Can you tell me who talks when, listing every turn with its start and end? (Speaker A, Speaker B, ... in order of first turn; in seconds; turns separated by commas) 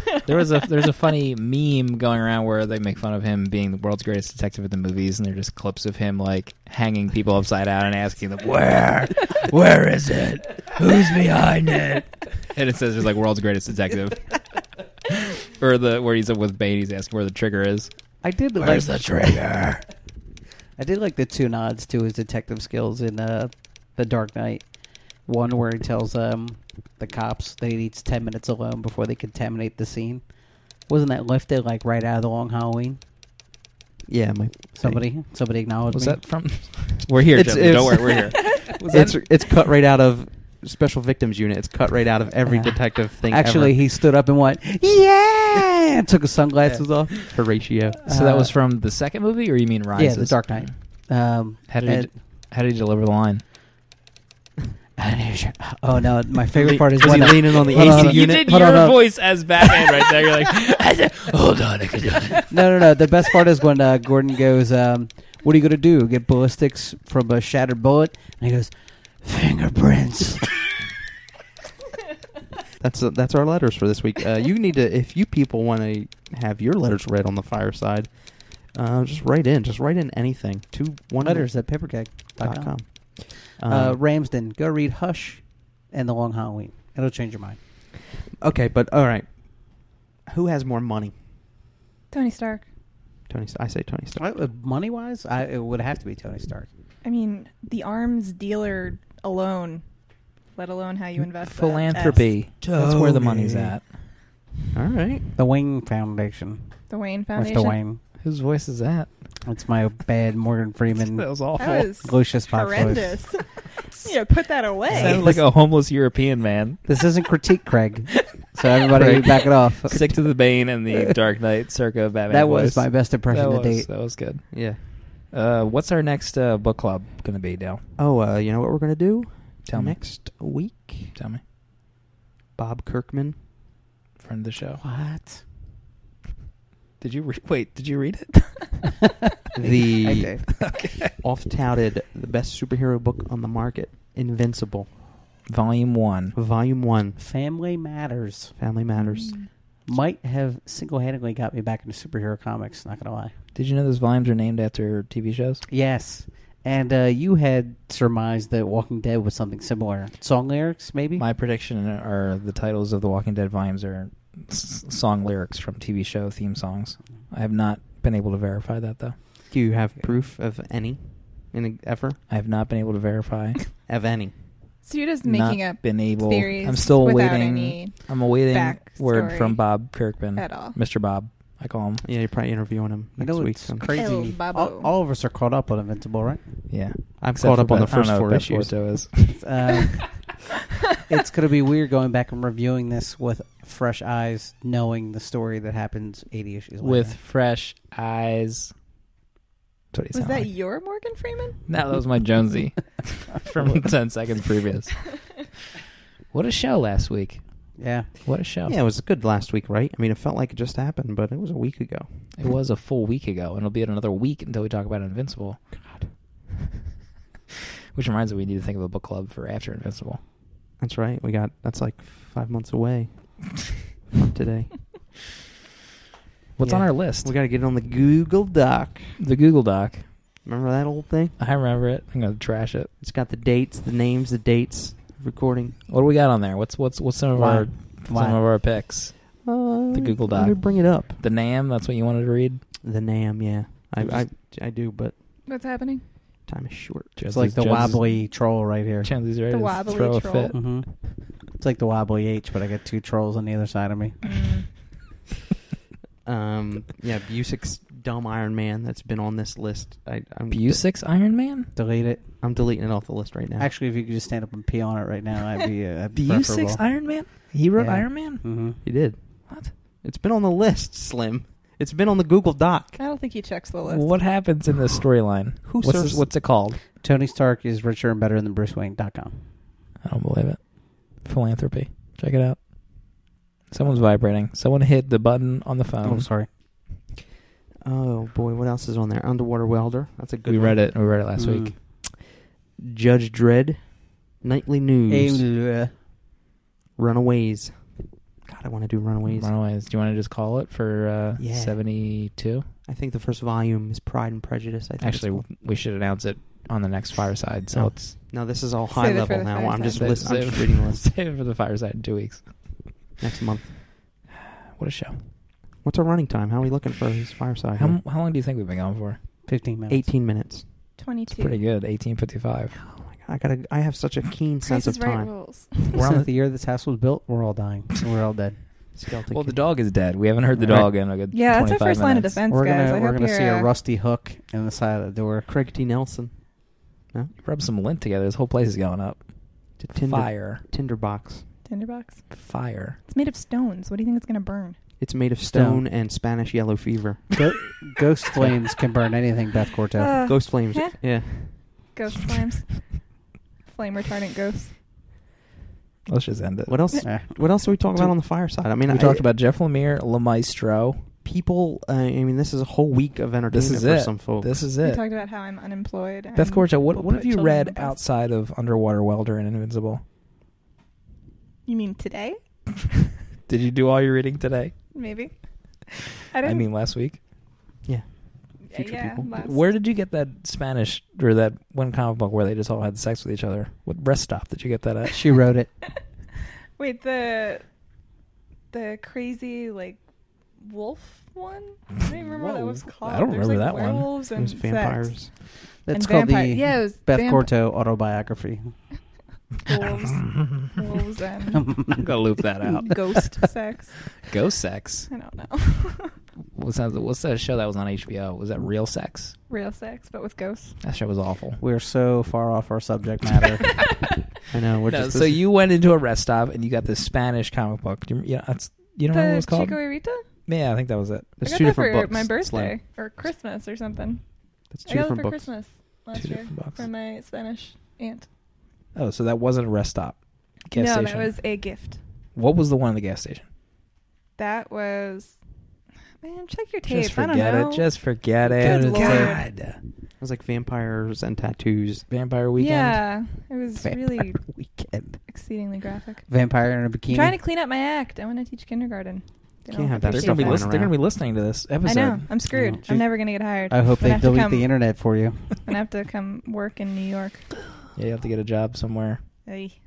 Speaker A: 0.2-14.5, Speaker A: 15.1-19.9, Speaker B: 18.2-19.5, Speaker B: 20.8-33.0, Speaker C: 34.1-35.0, Speaker B: 34.8-36.2, Speaker A: 35.9-39.2, Speaker C: 37.2-43.9, Speaker B: 42.4-47.4, Speaker C: 46.7-48.0, Speaker B: 48.0-48.6, Speaker A: 48.0-50.8, Speaker B: 50.0-52.1, Speaker A: 51.7-53.5, Speaker B: 55.0-59.4, Speaker C: 56.5-58.7, Speaker A: 57.7-62.5, Speaker B: 62.5-70.8, Speaker C: 72.8-84.0, Speaker B: 81.2-87.6, Speaker C: 88.4-91.2, Speaker D: 92.1-92.7, Speaker C: 93.3-94.2, Speaker B: 94.2-96.7, Speaker D: 97.0-102.3, Speaker A: 101.2-103.9, Speaker C: 102.6-103.7, Speaker B: 103.2-103.6, Speaker C: 104.7-105.3, Speaker B: 105.3-108.0, Speaker D: 106.9-107.8, Speaker A: 108.2-109.4, Speaker B: 109.4-113.3, Speaker A: 110.9-111.9, Speaker D: 111.6-115.3, Speaker B: 114.9-115.4, Speaker A: 114.9-116.8, Speaker B: 116.8-120.5, Speaker A: 119.0-127.8, Speaker B: 122.3-123.9, Speaker C: 124.5-124.8, Speaker C: 128.0-131.2, Speaker A: 129.7-130.0, Speaker A: 131.1-131.4, Speaker C: 132.6-133.4, Speaker A: 134.2-134.8, Speaker B: 134.8-135.4, Speaker A: 137.0-139.0, Speaker C: 139.6-144.9, Speaker B: 139.6-140.5, Speaker A: 140.6-141.1, Speaker A: 145.5-146.4, Speaker C: 146.3-147.2, Speaker B: 147.2-148.6, Speaker C: 148.6-149.5, Speaker D: 149.0-149.5, Speaker B: 149.8-153.3, Speaker A: 153.6-155.6, Speaker B: 155.7-161.2, Speaker A: 161.2-169.2, Speaker C: 169.5-172.2, Speaker A: 172.3-173.6, Speaker C: 173.9-174.4, Speaker D: 174.8-180.8, Speaker A: 175.2-182.0, Speaker C: 182.0-183.9, Speaker B: 183.2-186.5, Speaker D: 183.9-184.9, Speaker A: 186.7-189.4, Speaker C: 187.2-189.1, Speaker B: 189.3-190.1, Speaker B: 191.1-197.2, Speaker A: 196.8-198.7, Speaker A: 199.9-200.5, Speaker D: 200.1-201.6, Speaker A: 201.7-205.4, Speaker A: 206.3-208.8, Speaker B: 207.8-208.1, Speaker C: 208.7-212.4, Speaker A: 212.4-215.7, Speaker C: 215.8-216.1, Speaker A: 217.9-220.2, Speaker C: 220.8-224.9, Speaker A: 226.6-227.3, Speaker C: 226.6-229.2, Speaker A: 229.2-230.1, Speaker C: 230.4-231.4, Speaker A: 231.4-232.9, Speaker C: 233.0-235.8, Speaker A: 235.9-242.6, Speaker B: 237.3-238.4, Speaker C: 239.4-241.2, Speaker C: 242.8-245.2, Speaker D: 245.5-246.1, Speaker C: 246.4-247.2, Speaker A: 247.2-248.3, Speaker B: 247.3-249.1, Speaker A: 249.0-250.7, Speaker D: 249.5-250.6, Speaker B: 250.5-254.2, Speaker D: 254.2-254.7, Speaker C: 256.2-260.9, Speaker A: 260.5-261.7, Speaker B: 261.8-262.3, Speaker C: 262.4-263.7, Speaker B: 263.6-268.8, Speaker A: 266.1-268.8, Speaker C: 268.8-273.0, Speaker A: 269.5-269.7, Speaker D: 273.0-274.3, Speaker A: 273.9-276.8, Speaker C: 275.6-276.3, Speaker B: 277.0-279.5, Speaker A: 280.0-282.6, Speaker A: 283.7-286.3, Speaker B: 286.0-286.5, Speaker C: 287.8-290.9, Speaker A: 290.5-291.8, Speaker B: 291.4-291.8, Speaker C: 292.0-295.4, Speaker B: 295.1-295.9, Speaker C: 297.0-299.5, Speaker A: 299.3-302.7, Speaker C: 301.4-301.8, Speaker C: 302.9-305.4, Speaker A: 305.0-308.2, Speaker C: 307.7-311.1, Speaker D: 308.9-310.2, Speaker A: 309.9-313.1, Speaker C: 313.2-313.8, Speaker A: 314.7-315.2, Speaker C: 315.8-318.0, Speaker A: 317.8-319.2, Speaker B: 319.5-320.1, Speaker C: 319.9-321.0, Speaker D: 321.0-321.6, Speaker A: 321.4-322.8, Speaker C: 322.8-325.7, Speaker D: 324.6-326.0, Speaker B: 325.9-328.6, Speaker C: 328.9-329.8, Speaker A: 329.3-332.4, Speaker C: 330.6-330.9, Speaker D: 331.3-333.7, Speaker B: 332.5-335.5, Speaker C: 335.5-337.3, Speaker A: 337.4-340.6, Speaker C: 339.8-341.5, Speaker D: 341.7-342.3, Speaker A: 342.3-343.0, Speaker D: 343.1-344.8, Speaker C: 345.0-347.4, Speaker B: 345.5-345.8, Speaker B: 347.4-350.1, Speaker D: 350.0-354.8, Speaker C: 350.3-351.9, Speaker A: 356.1-357.0, Speaker C: 356.7-359.3, Speaker B: 357.0-358.1, Speaker A: 358.9-361.1, Speaker C: 361.2-364.7, Speaker A: 363.5-365.0, Speaker D: 364.8-368.0, Speaker A: 366.4-370.0, Speaker D: 371.7-372.7, Speaker A: 373.5-374.9, Speaker D: 374.9-376.7, Speaker A: 376.4-377.2, Speaker C: 377.8-379.3, Speaker D: 378.7-379.7, Speaker A: 379.2-385.4, Speaker B: 385.1-385.7, Speaker D: 386.8-387.6, Speaker D: 388.7-390.0, Speaker D: 390.6-397.5, Speaker A: 392.7-394.1, Speaker C: 394.3-395.3, Speaker B: 395.9-398.9, Speaker D: 399.6-401.8, Speaker B: 401.7-402.0, Speaker A: 402.0-403.1, Speaker D: 402.8-404.2, Speaker A: 404.2-405.1, Speaker D: 405.1-406.1, Speaker A: 406.5-409.4, Speaker D: 409.5-410.8, Speaker A: 410.8-411.6, Speaker B: 411.6-413.7, Speaker C: 414.5-415.4, Speaker A: 414.9-419.9, Speaker D: 419.1-420.2, Speaker A: 420.5-421.4, Speaker C: 421.4-422.8, Speaker D: 421.4-424.3, Speaker C: 424.7-425.5, Speaker D: 424.9-428.3, Speaker A: 426.1-426.9, Speaker A: 428.9-431.3, Speaker D: 430.7-432.0, Speaker A: 432.4-433.5, Speaker D: 434.4-435.4, Speaker D: 436.2-437.9, Speaker A: 436.9-439.8, Speaker D: 438.5-439.4, Speaker B: 438.6-439.4, Speaker C: 440.2-442.1, Speaker A: 442.1-443.0, Speaker D: 442.6-444.4, Speaker B: 443.8-445.2, Speaker D: 445.3-446.3, Speaker B: 446.3-447.4, Speaker D: 447.1-450.7, Speaker C: 449.7-451.0, Speaker A: 450.1-452.3, Speaker D: 451.9-454.7, Speaker B: 452.5-455.6, Speaker D: 455.6-457.5, Speaker A: 457.9-459.2, Speaker D: 459.4-459.8